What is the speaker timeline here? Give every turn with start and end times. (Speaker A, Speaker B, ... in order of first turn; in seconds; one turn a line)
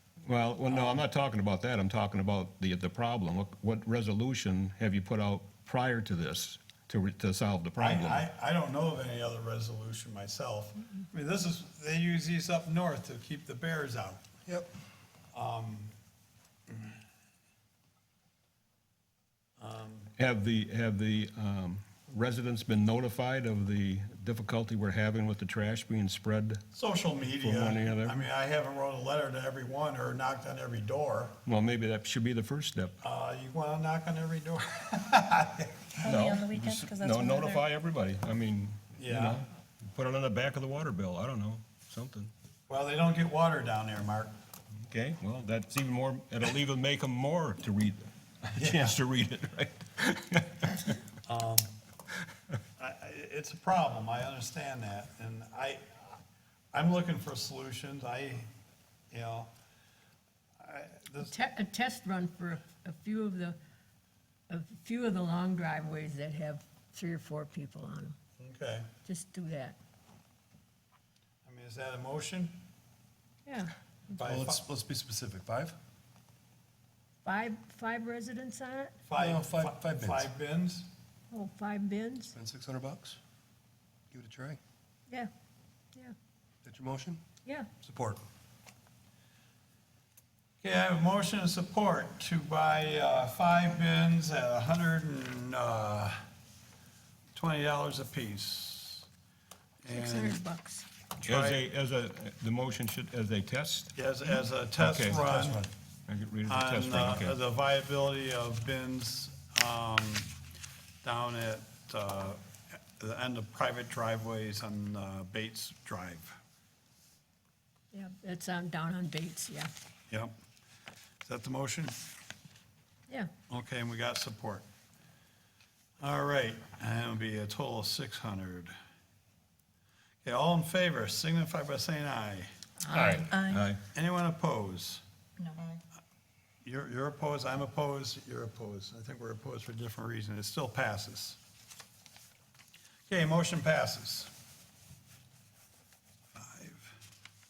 Speaker A: 0.2-8.2
Speaker B: 0.7-1.0
Speaker B: 7.8-14.2
Speaker B: 15.3-15.9
Speaker B: 19.6-20.1
Speaker A: 20.2-26.6
Speaker B: 26.7-31.4
Speaker A: 27.4-28.2
Speaker A: 31.4-33.0
Speaker B: 33.0-35.9
Speaker C: 36.0-37.6
Speaker A: 36.1-42.3
Speaker B: 39.0-39.4
Speaker B: 42.7-44.3
Speaker A: 44.9-50.7
Speaker B: 48.6-49.0
Speaker B: 51.2-51.7
Speaker B: 52.8-56.1
Speaker B: 56.7-58.5
Speaker B: 59.1-59.5
Speaker B: 60.6-61.3
Speaker D: 61.2-63.6
Speaker D: 64.5-68.2
Speaker B: 68.4-68.9
Speaker D: 69.0-69.8
Speaker B: 71.5-72.6
Speaker D: 73.5-73.7
Speaker B: 74.1-74.6
Speaker E: 74.2-75.8
Speaker D: 77.2-79.0
Speaker B: 79.1-80.9
Speaker E: 79.1-80.3
Speaker D: 81.3-82.3
Speaker E: 82.3-83.2
Speaker E: 84.1-84.6
Speaker E: 86.6-87.2
Speaker E: 87.8-88.2
Speaker B: 90.6-96.2
Speaker B: 97.3-99.1
Speaker B: 99.8-100.4
Speaker D: 99.9-100.9
Speaker B: 101.2-101.6
Speaker A: 101.2-103.9
Speaker B: 103.9-105.7
Speaker A: 104.8-105.2
Speaker E: 105.3-105.7
Speaker A: 106.1-107.3
Speaker B: 106.5-110.3
Speaker B: 111.0-112.4
Speaker B: 113.0-116.3
Speaker D: 117.9-119.7
Speaker B: 121.2-122.0
Speaker B: 123.5-124.7
Speaker B: 126.0-128.7
Speaker B: 130.2-132.5
Speaker D: 132.8-133.3
Speaker A: 132.9-133.8
Speaker C: 133.1-133.7
Speaker B: 133.9-135.0
Speaker C: 135.4-135.8
Speaker B: 136.6-141.4
Speaker B: 143.1-144.3
Speaker B: 146.3-146.9